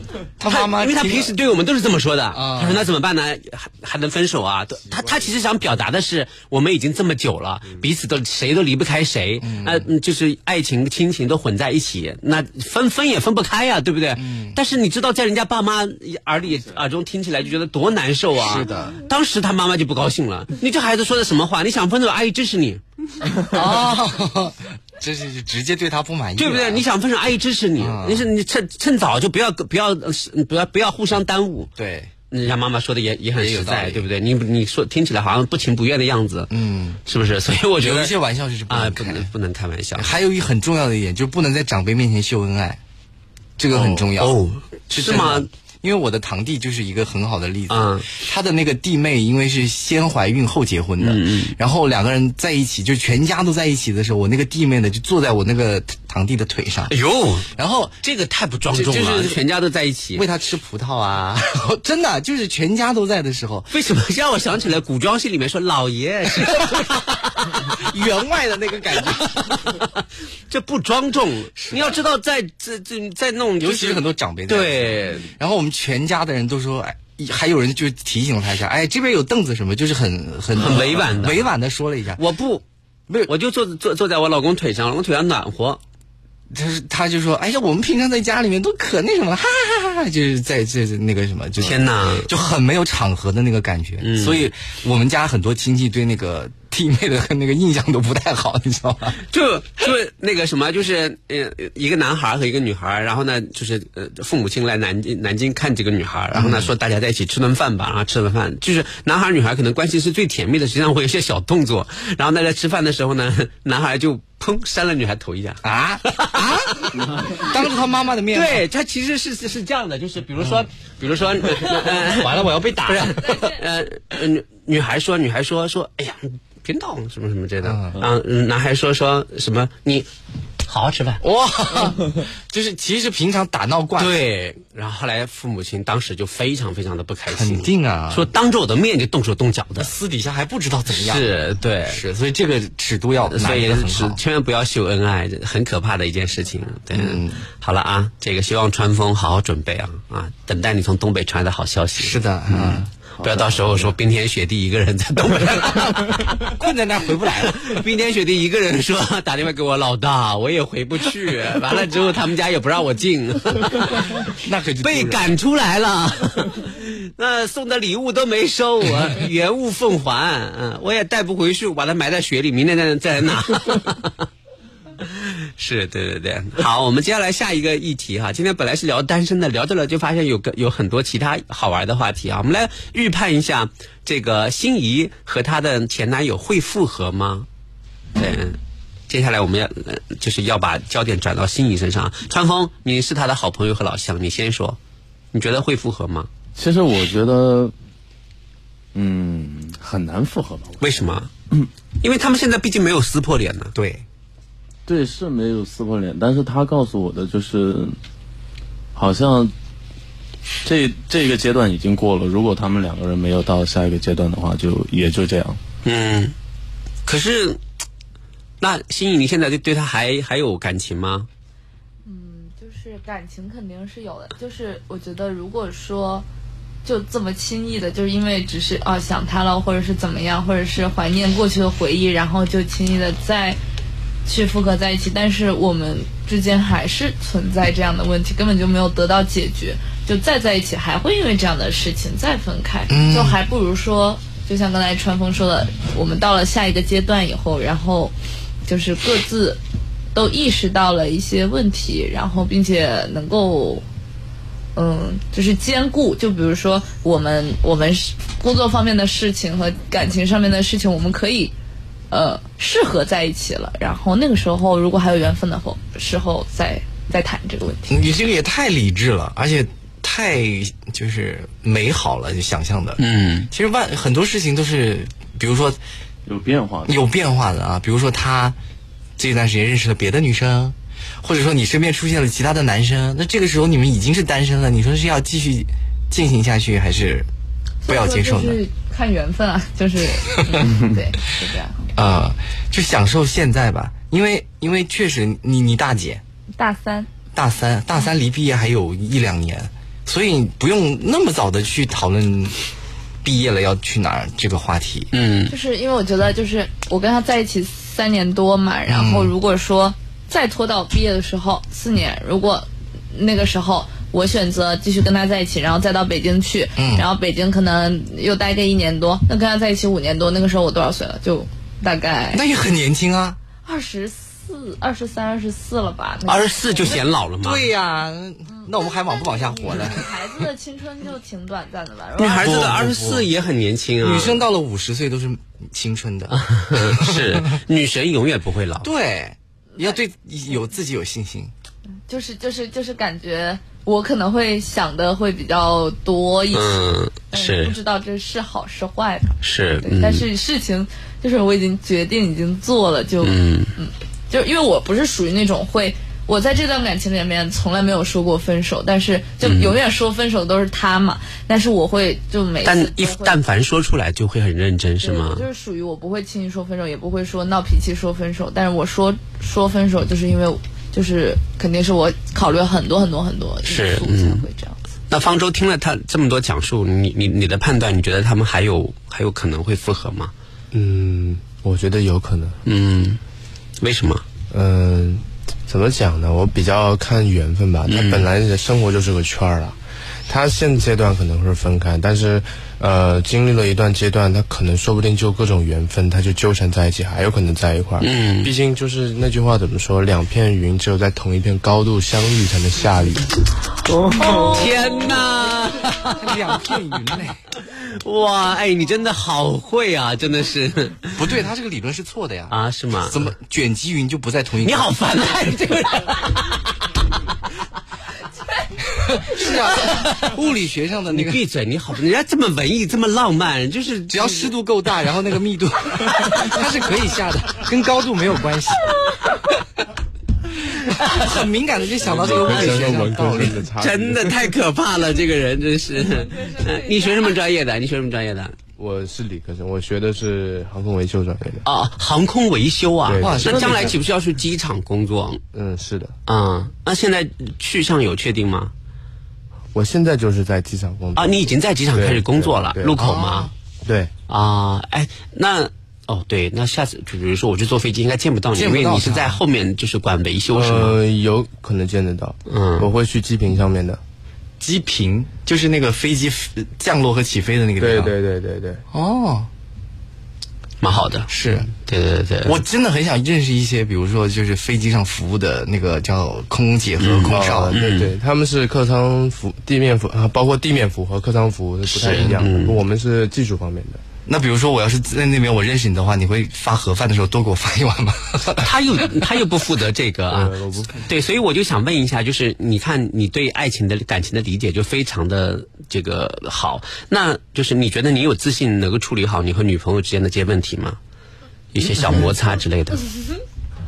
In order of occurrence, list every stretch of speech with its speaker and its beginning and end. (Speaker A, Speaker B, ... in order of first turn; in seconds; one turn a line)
Speaker A: 0.4-1.4
Speaker B: 0.5-22.8
Speaker A: 2.3-2.9
Speaker A: 9.4-9.9
Speaker A: 14.2-14.6
Speaker C: 16.5-16.8
Speaker A: 18.4-19.0
Speaker A: 23.4-26.9
Speaker B: 26.4-31.7
Speaker A: 27.8-28.3
Speaker A: 31.8-32.1
Speaker B: 32.3-36.5
Speaker A: 33.4-34.1
Speaker A: 36.5-37.0
Speaker B: 37.1-38.1
Speaker A: 37.8-39.3
Speaker B: 38.7-40.1
Speaker A: 40.0-42.8
Speaker A: 43.6-56.9
Speaker B: 43.7-45.5
Speaker B: 47.7-48.1
Speaker B: 51.0-51.6
Speaker B: 56.9-57.5
Speaker A: 57.5-58.0
Speaker B: 58.0-60.3
Speaker A: 58.7-59.4
Speaker A: 60.1-63.7
Speaker B: 63.7-67.9
Speaker A: 66.3-67.0
Speaker A: 67.6-69.6
Speaker B: 69.1-69.9
Speaker B: 70.5-75.3
Speaker A: 71.6-72.0
Speaker A: 73.6-82.2
Speaker B: 80.5-81.5
Speaker B: 82.2-82.6
Speaker B: 83.2-85.8
Speaker A: 86.5-99.2
Speaker B: 91.6-92.3
Speaker B: 94.0-94.5
Speaker B: 99.3-117.7
Speaker A: 106.3-106.7
Speaker A: 115.6-116.8
Speaker A: 117.4-118.7
Speaker B: 118.3-130.1
Speaker A: 121.8-123.5
Speaker A: 127.6-128.0
Speaker B: 130.7-131.2
Speaker A: 131.2-134.2
Speaker B: 134.0-139.9
Speaker A: 137.3-138.3
Speaker A: 139.8-141.3
Speaker B: 140.9-142.0
Speaker A: 141.8-144.2
Speaker B: 143.3-156.5
Speaker A: 146.9-147.5
Speaker A: 152.0-152.9
Speaker C: 153.2-153.9
Speaker A: 156.4-157.7
Speaker B: 157.2-174.1
Speaker A: 164.4-165.3
Speaker B: 175.0-187.5
Speaker B: 188.2-194.8
Speaker B: 195.3-196.3
Speaker C: 196.6-197.7
Speaker C: 198.9-201.7
Speaker B: 200.8-201.3
Speaker B: 202.0-203.7
Speaker A: 203.8-204.1
Speaker C: 204.9-208.0
Speaker C: 209.0-209.5
Speaker C: 210.7-215.6
Speaker B: 215.8-216.3
Speaker B: 217.1-217.6
Speaker B: 218.6-221.3
Speaker D: 222.1-226.3
Speaker D: 226.8-233.6
Speaker D: 234.3-248.1
Speaker A: 242.9-243.4
Speaker D: 248.7-249.6
Speaker D: 250.1-253.8
Speaker D: 254.8-261.5
Speaker D: 262.1-267.9
Speaker A: 267.9-275.8
Speaker B: 273.0-273.5
Speaker C: 276.3-277.0
Speaker A: 276.9-278.6
Speaker A: 279.2-287.3
Speaker D: 287.8-291.8
Speaker A: 287.9-288.6
Speaker A: 291.9-296.2
Speaker D: 296.6-297.1
Speaker A: 297.3-302.6
Speaker A: 303.2-305.1
Speaker B: 305.1-305.5
Speaker D: 305.5-322.4
Speaker A: 308.9-309.3
Speaker A: 316.8-317.1
Speaker A: 322.3-323.4
Speaker D: 323.6-327.0
Speaker B: 326.3-327.7
Speaker A: 327.4-330.1
Speaker D: 328.5-332.6
Speaker B: 332.2-334.4
Speaker A: 332.3-333.3
Speaker A: 334.0-337.6
Speaker B: 336.3-338.9
Speaker A: 338.8-341.5
Speaker D: 342.1-363.4
Speaker B: 346.5-347.8
Speaker B: 349.4-350.3
Speaker B: 353.2-353.7
Speaker B: 359.4-359.8
Speaker B: 362.6-365.5
Speaker D: 365.0-374.8
Speaker B: 373.6-374.4
Speaker B: 375.1-380.3
Speaker E: 380.7-382.6
Speaker B: 382.7-383.2
Speaker B: 383.8-384.2
Speaker E: 384.5-389.8
Speaker B: 387.9-388.3
Speaker E: 390.3-403.3
Speaker B: 398.0-398.5
Speaker C: 403.9-404.8
Speaker B: 404.3-406.3
Speaker A: 406.1-407.4
Speaker B: 407.9-411.1
Speaker A: 411.1-414.9
Speaker B: 412.5-413.3
Speaker B: 414.6-416.7
Speaker A: 419.0-421.4
Speaker B: 419.4-420.3
Speaker B: 421.1-424.5
Speaker A: 424.1-429.1
Speaker B: 430.8-431.4
Speaker A: 430.9-433.6
Speaker B: 432.0-438.6
Speaker E: 432.0-434.4
Speaker D: 436.5-437.1
Speaker E: 438.8-441.6
Speaker B: 441.6-445.4
Speaker E: 443.1-443.9
Speaker A: 443.2-443.9
Speaker E: 445.5-446.1
Speaker B: 446.3-448.7
Speaker E: 449.7-452.9
Speaker B: 451.1-453.5
Speaker A: 453.0-453.5
Speaker E: 453.9-454.1
Speaker B: 454.3-461.0
Speaker A: 458.5-459.4
Speaker E: 460.5-464.0
Speaker B: 462.5-462.9
Speaker A: 464.6-468.1
Speaker E: 467.8-468.8
Speaker A: 468.9-469.5
Speaker B: 470.8-471.3
Speaker A: 471.3-471.7
Speaker B: 471.9-472.6
Speaker A: 472.4-477.8
Speaker B: 477.0-478.1
Speaker E: 477.3-484.0
Speaker B: 481.9-482.8
Speaker A: 482.1-482.5
Speaker A: 484.3-489.1
Speaker B: 488.6-501.0
Speaker E: 490.3-491.0
Speaker B: 501.7-503.1